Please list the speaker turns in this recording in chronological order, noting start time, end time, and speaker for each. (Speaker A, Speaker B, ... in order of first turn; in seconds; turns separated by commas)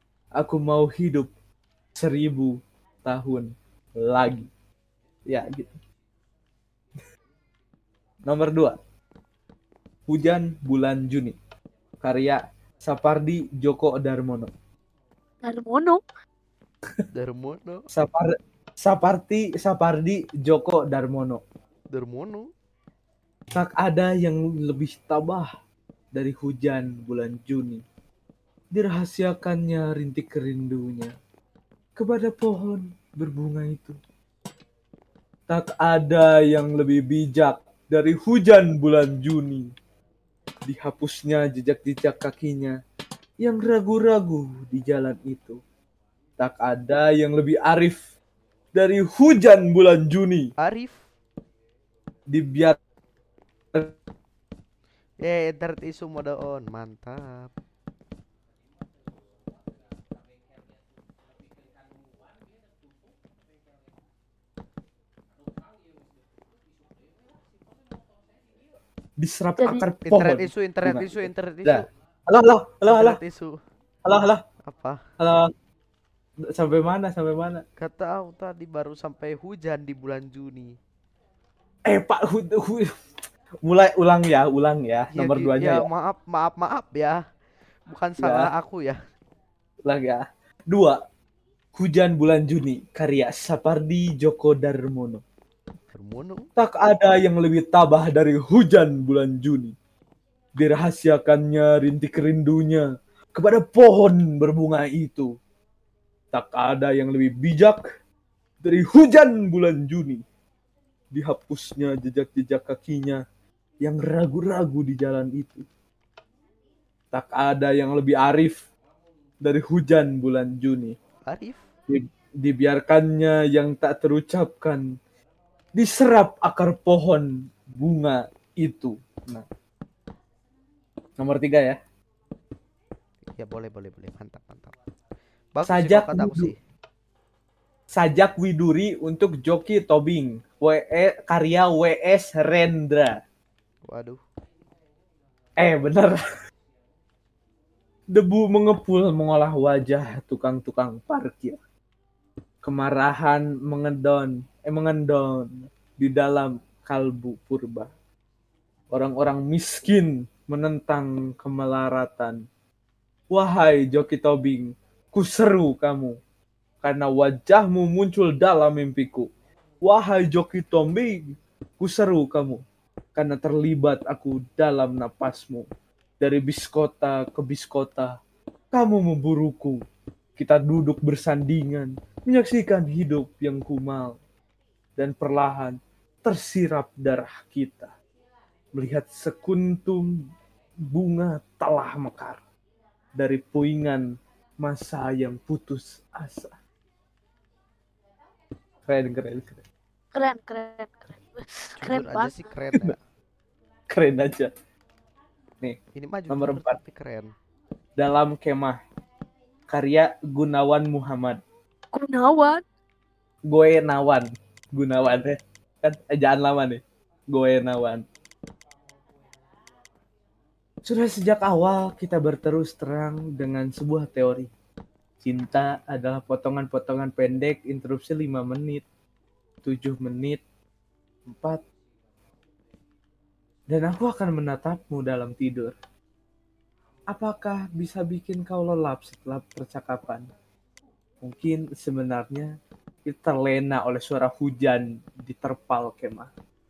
Speaker A: 0.4-1.3, Speaker A: 1.9-4.5, Speaker A: 5.3-5.8, Speaker A: 8.3-8.8, Speaker A: 10.1-11.4, Speaker A: 12.0-14.5, Speaker B: 15.4-16.0, Speaker C: 17.1-17.9, Speaker A: 17.9-21.4, Speaker C: 21.9-22.5, Speaker A: 23.5-25.5, Speaker A: 26.1-27.8, Speaker A: 28.7-31.1, Speaker A: 32.0-34.0, Speaker A: 35.5-39.7, Speaker A: 40.7-42.8, Speaker A: 43.4-45.6, Speaker A: 46.4-48.0, Speaker A: 48.7-50.5, Speaker C: 50.6-51.0, Speaker A: 52.3-52.8, Speaker C: 55.2-57.5, Speaker A: 69.2-73.2, Speaker B: 69.6-69.9, Speaker C: 70.0-71.9, Speaker C: 72.9-73.6, Speaker A: 74.0-74.4, Speaker C: 74.6-75.0, Speaker A: 75.2-75.5, Speaker A: 76.5-77.6, Speaker C: 77.8-80.8, Speaker A: 81.9-82.9, Speaker A: 83.7-85.9, Speaker C: 85.1-87.2, Speaker C: 87.9-89.0, Speaker A: 88.2-88.5, Speaker A: 89.9-91.0, Speaker A: 91.7-95.2, Speaker C: 95.9-96.5, Speaker A: 96.6-99.8, Speaker A: 100.5-105.3, Speaker A: 106.3-107.8, Speaker A: 108.6-110.2, Speaker A: 111.1-113.2, Speaker A: 113.8-115.7, Speaker A: 117.1-118.6, Speaker A: 119.4-121.0, Speaker C: 121.3-121.6, Speaker A: 121.9-124.8, Speaker A: 125.8-129.5, Speaker A: 131.2-131.8, Speaker C: 133.3-134.8, Speaker C: 135.6-136.6, Speaker A: 135.7-136.5, Speaker A: 137.9-143.2, Speaker C: 143.9-144.2, Speaker A: 145.6-146.2, Speaker A: 148.1-151.6, Speaker A: 152.6-157.9, Speaker A: 158.9-162.4, Speaker A: 163.3-166.2, Speaker A: 166.8-169.3, Speaker A: 169.8-172.6, Speaker A: 173.2-175.7, Speaker A: 176.2-178.2, Speaker A: 178.7-179.8, Speaker A: 180.4-184.2, Speaker A: 185.0-187.9, Speaker A: 188.7-190.1, Speaker A: 190.9-192.4, Speaker A: 193.2-194.1, Speaker A: 194.6-196.5, Speaker A: 198.9-199.6, Speaker B: 200.1-202.3, Speaker C: 201.8-203.0, Speaker A: 203.9-204.5, Speaker C: 206.0-207.3, Speaker A: 206.3-206.8, Speaker A: 208.0-208.8, Speaker A: 209.7-211.4, Speaker B: 211.9-212.6, Speaker A: 213.5-218.0, Speaker A: 220.8-224.5, Speaker A: 225.2-228.8, Speaker A: 229.6-230.4, Speaker A: 231.3-231.6, Speaker A: 233.7-235.7, Speaker A: 237.1-240.3, Speaker A: 241.2-242.5, Speaker A: 243.1-246.3